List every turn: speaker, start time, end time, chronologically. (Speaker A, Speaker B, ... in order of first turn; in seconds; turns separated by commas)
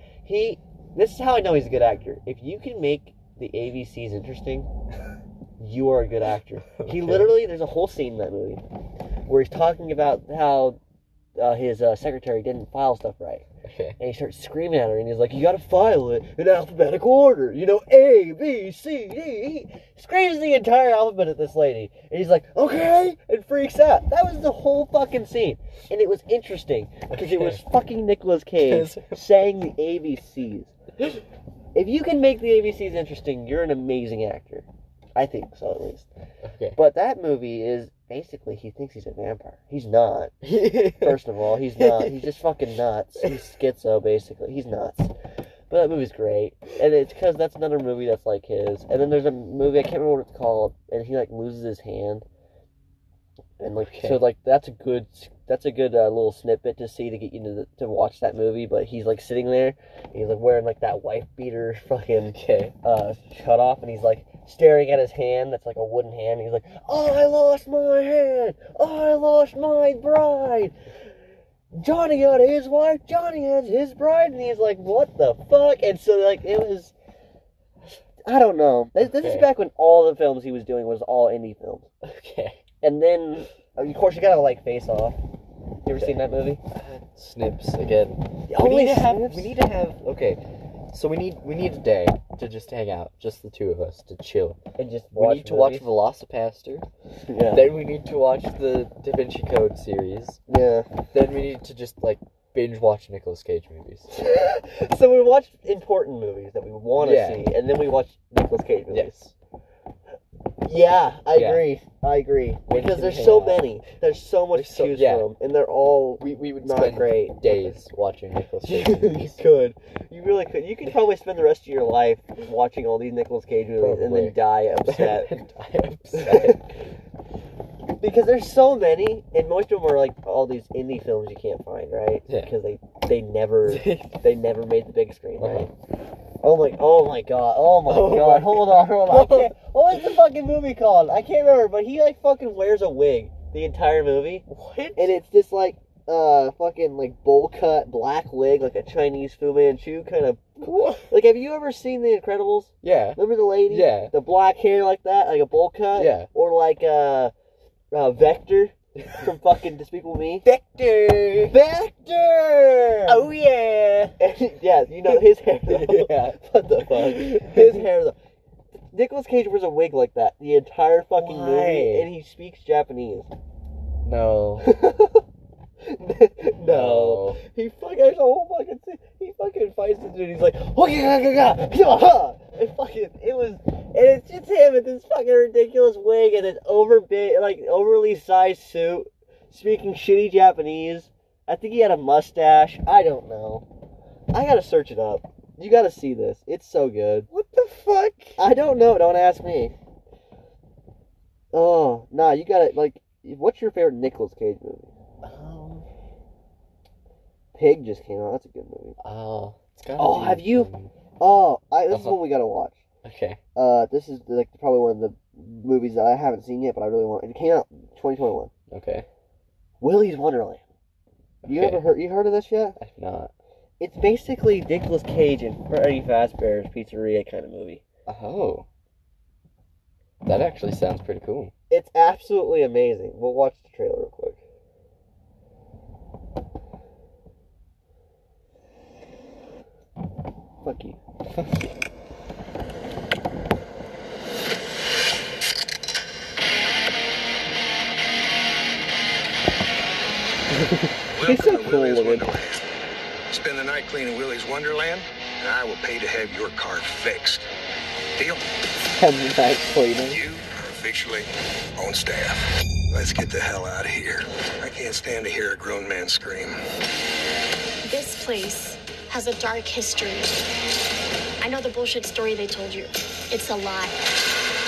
Speaker A: 0.2-4.7, Speaker A: 5.6-8.6, Speaker B: 6.8-7.3, Speaker A: 9.3-10.8, Speaker A: 11.4-13.4, Speaker B: 13.6-14.0, Speaker A: 14.0-30.7, Speaker B: 27.1-27.6, Speaker B: 28.6-29.2, Speaker A: 31.7-36.1, Speaker B: 36.4-36.8, Speaker A: 36.8-45.1, Speaker B: 40.4-41.2, Speaker B: 41.8-42.2, Speaker A: 45.7-52.2, Speaker A: 53.6-70.7, Speaker B: 53.8-54.3, Speaker B: 62.3-62.7, Speaker A: 71.7-76.9, Speaker A: 78.2-81.9, Speaker B: 79.0-79.5, Speaker B: 82.0-82.6, Speaker A: 82.8-85.2, Speaker A: 85.8-86.6, Speaker B: 86.0-90.4, Speaker A: 88.5-89.5, Speaker B: 90.9-94.6, Speaker A: 94.8-95.9, Speaker B: 95.1-96.9, Speaker A: 97.3-97.7, Speaker B: 97.5-100.4, Speaker A: 100.5-100.9, Speaker B: 101.1-104.1, Speaker A: 104.1-109.2, Speaker B: 107.0-107.4, Speaker B: 108.9-109.3, Speaker A: 110.6-117.8, Speaker B: 111.3-111.6, Speaker B: 112.7-113.7, Speaker B: 114.5-115.3, Speaker B: 116.2-119.4, Speaker A: 118.6-125.3, Speaker B: 123.8-126.6, Speaker A: 126.1-126.7, Speaker A: 128.0-135.7, Speaker B: 133.7-134.2, Speaker B: 135.4-135.7, Speaker A: 136.4-157.3, Speaker B: 137.9-139.5, Speaker B: 144.5-145.1, Speaker B: 152.8-154.1, Speaker B: 155.9-156.3, Speaker A: 157.9-160.4, Speaker B: 160.4-161.6, Speaker A: 161.4-163.2, Speaker B: 163.1-164.2, Speaker A: 164.2-168.2, Speaker B: 165.1-167.8, Speaker A: 168.9-173.3, Speaker B: 171.2-172.1, Speaker B: 174.0-174.7, Speaker A: 174.6-175.2, Speaker A: 175.8-193.6, Speaker B: 176.6-177.4, Speaker A: 194.3-197.3, Speaker B: 197.3-198.4, Speaker A: 198.4-199.7, Speaker A: 201.5-204.9, Speaker B: 205.2-205.8, Speaker A: 207.5-209.0, Speaker B: 209.0-210.9, Speaker A: 210.0-212.8, Speaker B: 211.9-212.3, Speaker B: 213.0-213.4, Speaker A: 213.6-218.5, Speaker B: 218.7-219.1, Speaker A: 219.8-220.6, Speaker B: 221.4-221.9, Speaker A: 221.4-222.8, Speaker B: 222.8-223.3, Speaker A: 223.8-227.8, Speaker B: 228.1-228.7, Speaker B: 230.2-231.5, Speaker A: 231.7-234.4, Speaker A: 240.6-241.0, Speaker C: 251.1-252.7, Speaker A: 251.2-252.2, Speaker C: 253.3-257.5, Speaker C: 258.1-258.4, Speaker A: 259.0-260.2, Speaker C: 260.1-266.6, Speaker D: 267.8-270.4, Speaker D: 271.4-274.0